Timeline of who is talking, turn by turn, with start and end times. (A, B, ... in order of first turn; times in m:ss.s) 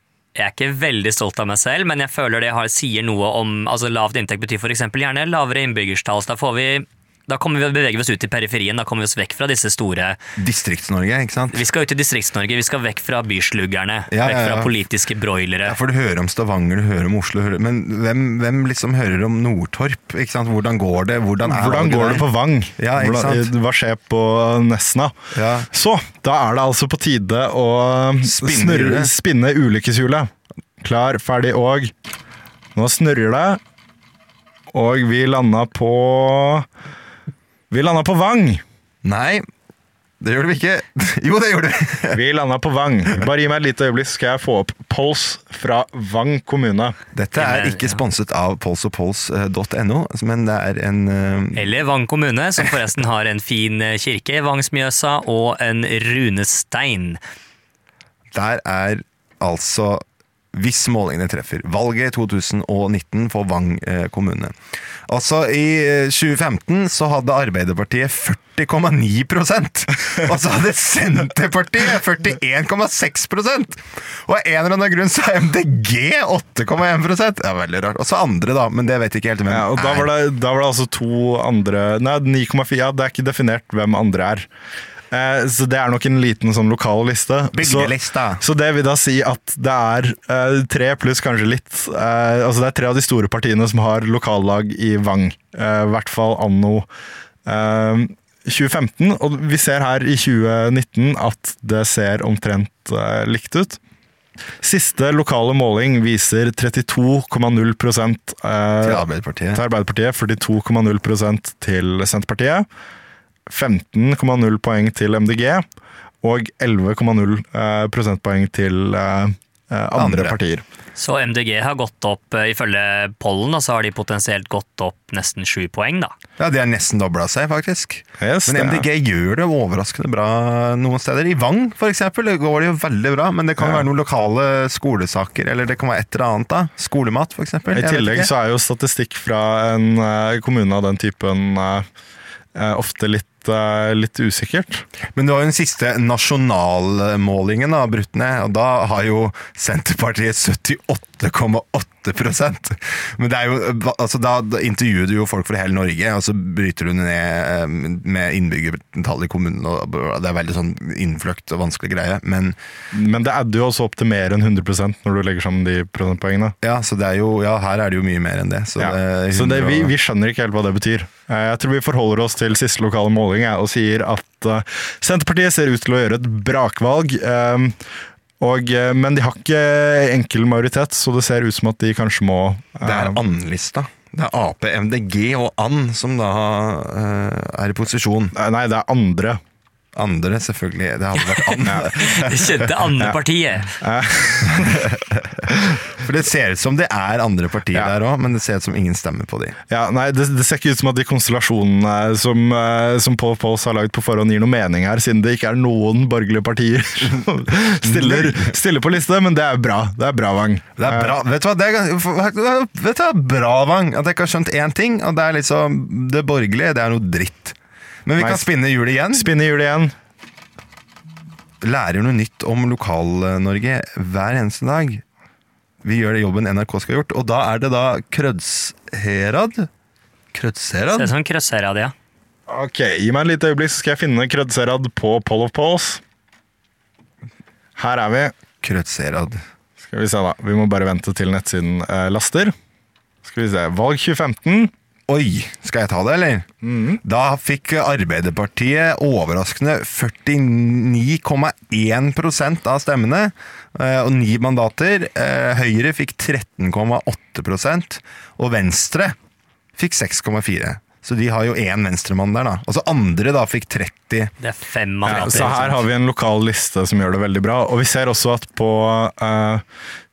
0:00.4-0:10.2 A
0:10.4-0:11.6 B
0:11.5-0:15.8 A
0:14.1-0:14.7 B
0:15.7-0:22.3 B
0:21.4-0:25.2 C
0:22.8-0:23.5 B
0:25.4-0:25.7 B
0:25.7-0:31.9 C
0:28.2-0:29.1 B
0:32.8-0:33.6 C
0:34.7-0:36.7 C
0:37.7-0:38.6 C
0:39.0-0:39.4 B
0:40.2-0:42.2 B
0:42.1-0:47.0 C
0:47.1-0:51.7 B
0:47.4-0:48.0 A
0:51.6-0:57.2 A
0:58.3-1:04.5 B
1:05.1-1:20.1 B
1:19.5-1:24.5 C
1:25.1-1:36.9 C
1:27.6-1:28.4 B
1:37.5-1:43.8 C
1:44.6-1:52.7 C
1:48.8-1:49.6 B
1:53.5-1:55.6 C
1:56.2-2:00.6 C
2:00.0-2:00.4 B
2:01.0-2:06.1 A
2:06.4-2:18.3 B
2:08.2-2:08.9 C
2:13.6-2:13.8 C
2:17.7-2:21.9 C
2:22.6-2:24.8 C
2:25.2-2:42.6 B
2:42.9-2:46.6 C
2:46.6-2:49.9 B
2:48.8-2:57.8 C
2:58.4-3:03.2 C
3:02.8-3:08.4 B
3:08.4-3:09.4 C
3:10.0-3:12.7 B
3:11.2-3:13.8 A
3:13.8-3:14.9 C
3:14.4-3:15.4 B
3:15.5-3:15.8 C
3:16.0-3:19.6 B
3:19.7-3:31.2 C
3:27.8-3:28.6 B
3:30.8-3:39.3 B
3:38.2-3:38.4 C
3:39.1-3:40.0 C
3:41.6-3:45.0 B
3:45.8-3:49.7 B
3:50.3-3:51.1 B
3:51.0-3:51.9 A
3:52.5-3:56.0 C
3:57.8-3:58.4 C
3:58.6-3:59.4 B
3:59.8-4:02.6 C
4:03.2-4:04.7 C
4:05.1-4:06.5 B
4:06.6-4:07.0 C
4:07.0-4:19.2 B
4:19.8-4:24.3 B
4:24.4-4:25.8 A
4:25.1-4:25.6 B
4:25.1-4:29.6 C